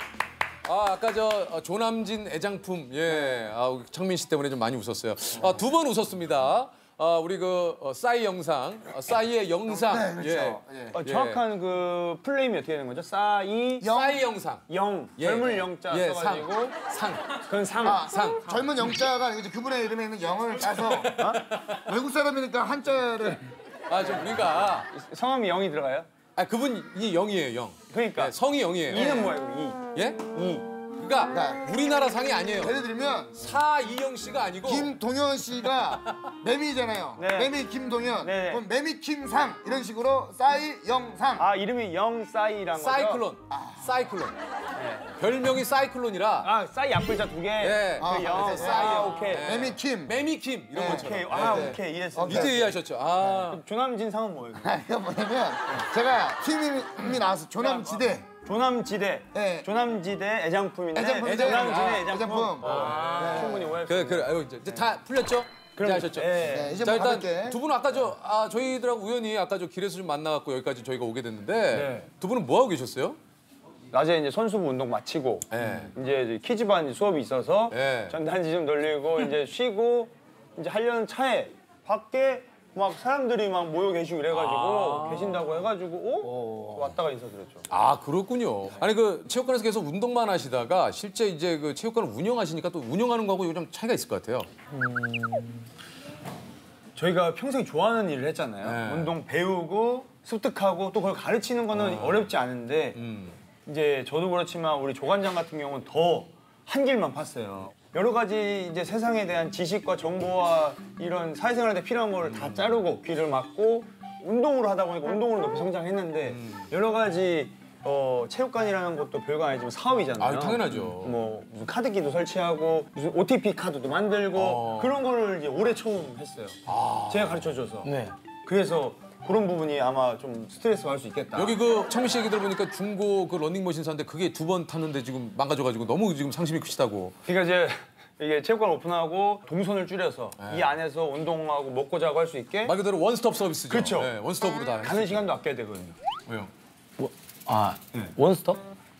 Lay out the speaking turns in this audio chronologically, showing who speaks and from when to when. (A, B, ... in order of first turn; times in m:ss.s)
0:00.6-0:11.4 A
0:09.7-0:11.0 B
0:10.9-0:13.9 C
0:13.8-0:14.2 B
0:13.8-0:17.4 A
0:14.7-0:16.8 C
0:17.4-0:18.1 C
0:17.8-0:21.2 B
0:18.0-0:18.5 A
0:20.6-0:21.8 A
0:21.0-0:21.5 C
0:21.7-0:23.5 B
0:23.9-0:24.9 A
0:24.1-0:26.1 C
0:26.3-0:29.3 A
0:27.9-0:30.7 C
0:29.9-0:30.3 A
0:30.8-0:32.8 A
0:31.3-0:31.7 B
0:32.6-0:33.4 B
0:33.3-0:34.9 A
0:34.6-0:41.5 B
0:35.8-0:36.2 A
0:37.2-0:37.5 C
0:38.2-0:38.6 C
0:41.4-0:43.3 C
0:42.8-0:44.3 A
0:43.5-0:44.0 B
0:44.8-0:45.1 C
0:45.2-0:46.5 A
0:46.4-0:49.5 C
0:47.6-0:53.6 A
0:48.0-0:50.2 B
0:50.7-0:52.7 B
0:50.8-0:52.6 C
0:53.2-0:54.7 C
0:54.6-0:58.3 B
0:57.6-1:04.9 C
0:59.3-0:59.7 B
1:00.9-1:03.7 B
1:01.2-1:13.2 A
1:05.8-1:06.8 C
1:06.4-1:07.6 B
1:11.7-1:12.1 C
1:13.9-1:27.6 C
1:15.5-1:15.9 A
1:17.7-1:18.2 A
1:24.3-1:25.6 A
1:26.2-1:26.7 D
1:27.7-1:34.5 A
1:34.9-1:35.6 D
1:37.0-1:43.0 C
1:38.6-1:39.2 A
1:41.7-1:42.3 A
1:42.9-1:43.4 A
1:43.6-2:07.9 C
1:52.3-1:52.8 A
1:56.3-1:56.7 A
2:00.2-2:01.2 A
2:04.3-2:05.0 A
2:06.6-2:07.5 A
2:07.8-2:08.1 D
2:08.4-2:11.6 C
2:11.3-2:17.2 A
2:17.2-2:22.7 C
2:20.4-2:20.7 A
2:22.6-2:25.3 A
2:23.7-2:24.1 C
2:24.8-2:26.0 C
2:27.0-2:28.6 D